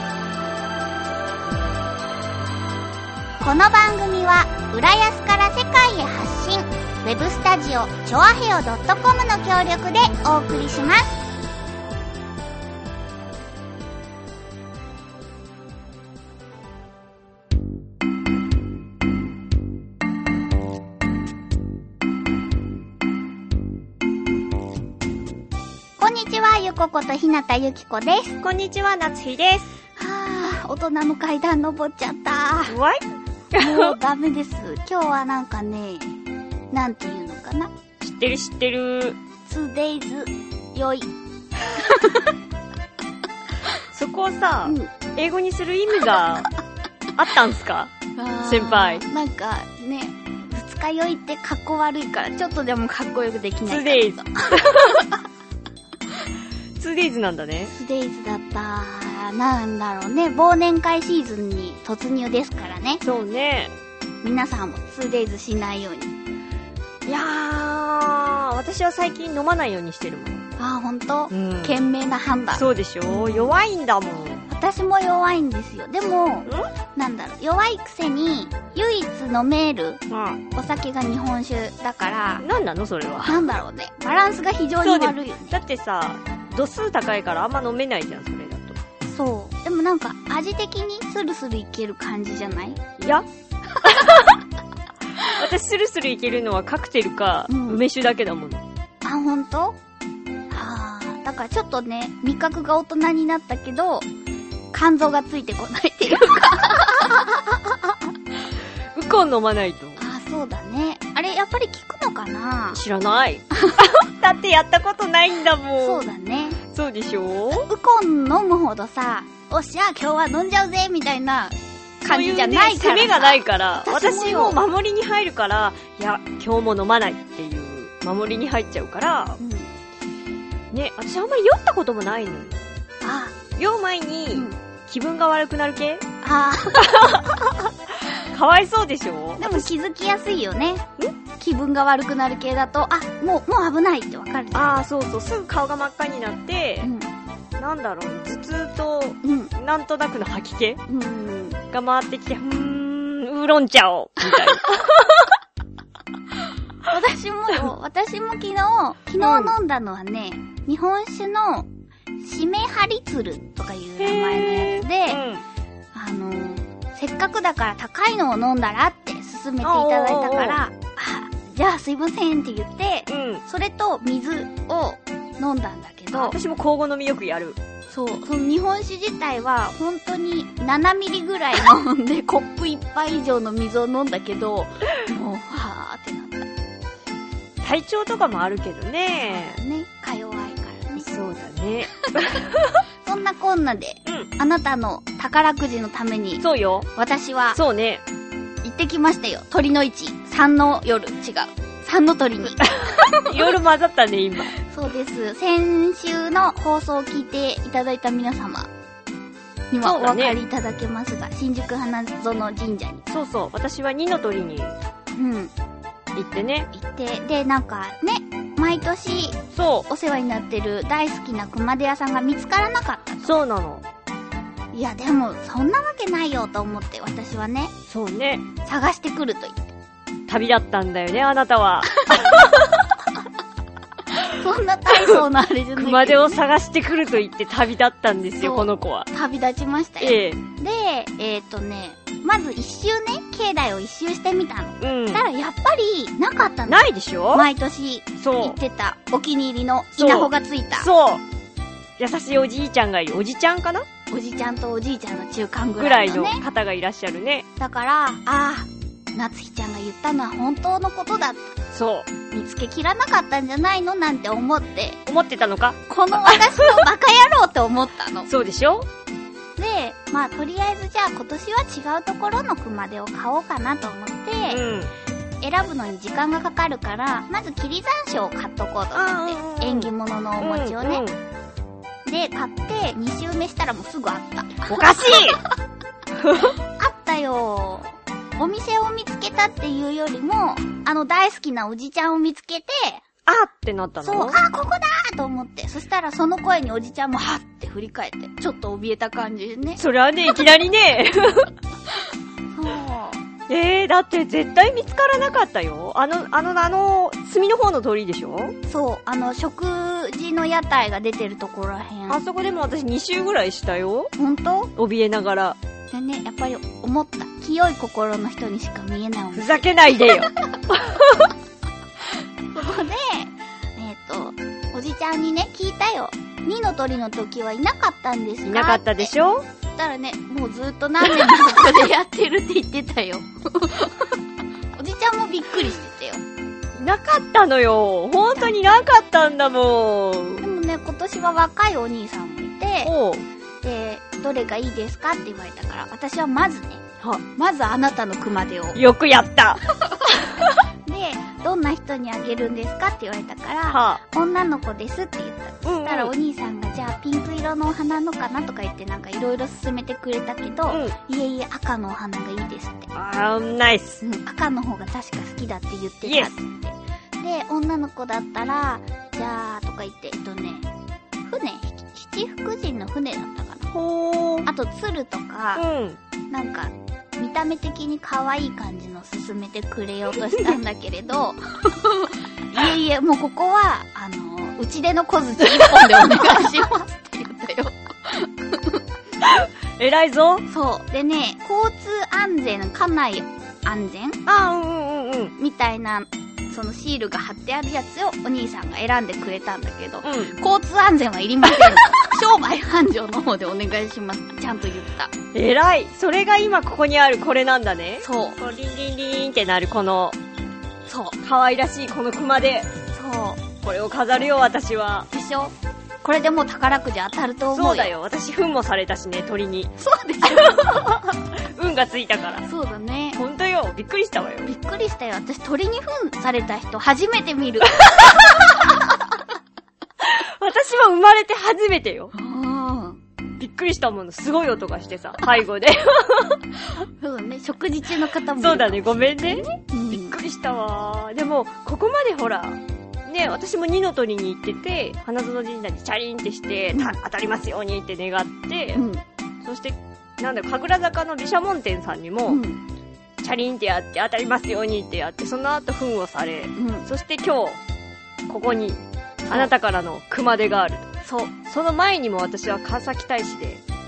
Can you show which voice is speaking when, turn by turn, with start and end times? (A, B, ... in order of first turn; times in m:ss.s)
0:03.4-0:11.2 A
0:26.0-0:28.4 A
0:28.4-0:29.7 B
0:30.0-0:32.8 A
0:32.7-0:33.9 B
0:33.6-0:36.2 A
0:36.7-0:37.7 A
0:38.0-0:39.2 B
0:39.4-0:41.1 A
0:41.6-0:42.3 A
0:43.9-0:46.5 B
0:47.2-0:49.0 B
0:48.2-0:55.1 A
0:53.6-0:55.0 B
0:56.8-0:57.7 B
0:57.7-1:03.0 A
1:03.0-1:03.7 B
1:04.2-1:06.1 A
1:07.0-1:10.4 B
1:10.6-1:13.5 A
1:11.3-1:11.9 B
1:12.5-1:14.4 B
1:14.5-1:20.0 A
1:20.1-1:20.4 B
1:20.5-1:22.4 A
1:22.4-1:23.5 B
1:23.2-1:25.6 A
1:24.8-1:28.8 B
1:29.0-1:32.8 A
1:33.0-1:33.2 B
1:33.8-1:34.4 B
1:33.9-1:34.1 A
1:35.2-1:38.6 B
1:37.5-1:37.8 A
1:39.0-1:39.8 A
1:40.5-1:44.1 A
1:44.7-1:48.0 A
1:48.9-1:50.0 B
1:50.0-1:52.8 A
1:52.7-1:56.1 B
1:53.5-1:53.8 A
1:55.8-1:56.6 A
1:56.7-1:57.7 B
1:57.5-2:04.6 A
2:02.0-2:09.4 B
2:09.4-2:09.7 A
2:10.7-2:12.6 B
2:13.0-2:13.4 A
2:13.6-2:16.0 B
2:16.2-2:17.3 A
2:16.8-2:19.7 B
2:19.4-2:20.8 A
2:21.4-2:24.8 A
2:24.5-2:26.9 B
2:26.8-2:27.1 A
2:27.6-2:30.8 B
2:29.2-2:29.5 A
2:30.9-2:31.6 A
2:31.7-2:35.2 B
2:36.8-2:41.7 A
2:39.2-2:39.5 B
2:42.2-2:45.2 A
2:44.0-2:45.4 B
2:45.9-2:56.4 A
2:49.6-2:50.6 B
2:53.1-2:53.4 B
2:56.1-2:57.6 B
2:57.9-3:06.5 A
3:07.6-3:09.6 B
3:09.3-3:11.1 A
3:11.0-3:12.8 B
3:13.0-3:16.4 A
3:16.4-3:16.9 B
3:16.9-3:17.6 A
3:17.5-3:18.0 B
3:18.6-3:23.3 A
3:22.8-3:24.5 B
3:24.6-3:28.7 A
3:29.7-3:33.1 A
3:29.8-3:30.4 B
3:33.1-3:34.8 B
3:35.1-3:35.5 A
3:36.2-3:36.7 B
3:36.7-3:43.4 A
3:39.5-3:39.9 B
3:43.2-3:43.8 B
3:44.7-3:47.7 A
3:47.9-3:48.4 B
3:48.6-3:49.7 A
3:50.3-3:52.6 B
3:52.0-3:52.3 A
3:54.2-3:56.4 A
3:55.8-3:59.1 B
3:58.4-4:10.9 A
4:00.0-4:00.4 B
4:04.8-4:05.3 B
4:06.7-4:07.5 B
4:08.2-4:08.6 B
4:10.0-4:11.2 B
4:12.0-4:13.8 B
4:14.1-4:16.4 A
4:15.8-4:17.4 B
4:17.6-4:21.6 A
4:21.7-4:22.1 B
4:22.3-4:25.0 A
4:25.0-4:26.7 B
4:25.9-4:28.3 A
4:28.3-4:28.9 B
4:29.6-4:34.6 A
4:34.5-4:34.9 B
4:35.4-4:41.0 A
4:38.9-4:41.2 B
4:42.0-4:45.5 A
4:44.7-4:45.4 B
4:46.2-4:46.5 B
4:46.6-4:53.0 A
4:53.2-4:54.4 B
4:54.0-4:59.8 A
4:59.8-5:01.5 B
5:02.5-5:03.2 A
5:03.5-5:08.5 B
5:08.6-5:12.2 A
5:12.1-5:14.1 B
5:14.2-5:14.7 A
5:14.8-5:15.6 B
5:15.9-5:20.3 A
5:19.3-5:21.3 B
5:22.5-5:29.1 A
5:28.4-5:29.4 B
5:29.7-5:34.2 A
5:34.7-5:36.2 A
5:36.8-5:40.4 B
5:38.4-5:38.7 A
5:40.4-5:42.9 A
5:42.8-5:43.2 B
5:43.6-5:48.8 A
5:48.7-5:49.6 B
5:50.8-6:02.9 A
5:53.7-5:54.0 B
5:55.6-5:56.1 B
6:00.7-6:00.9 B
6:02.9-6:04.0 B
6:04.0-6:10.7 A
6:06.0-6:06.3 B
6:11.2-6:13.7 A
6:13.7-6:14.5 B
6:14.4-6:15.6 A
6:15.6-6:16.0 B
6:16.3-6:28.8 A
6:29.2-6:30.5 B
6:30.5-6:34.2 A
6:34.2-6:35.3 B
6:35.4-6:45.1 A
6:40.0-6:40.4 B
6:45.3-6:50.2 B
6:48.0-6:48.4 A
6:50.8-6:51.2 A
6:51.2-6:52.7 B
6:52.9-6:53.4 A
6:53.6-6:55.1 B
6:55.1-6:57.9 A
6:57.5-6:59.7 B
6:59.8-7:00.9 A
7:00.2-7:02.4 B
7:02.4-7:03.2 A
7:03.1-7:04.5 B
7:04.4-7:09.0 A
7:10.0-7:12.1 B
7:12.1-7:13.0 A
7:13.4-7:16.4 B
7:16.8-7:20.2 A
7:18.4-7:28.8 B
7:26.7-7:27.0 A
7:28.7-7:29.0 A
7:29.4-7:32.4 B
7:32.3-7:32.6 A
7:33.2-7:37.6 B
7:36.6-7:36.9 A
7:38.3-7:40.9 B
7:39.2-7:39.5 A
7:41.0-7:41.3 A
7:41.4-7:43.6 B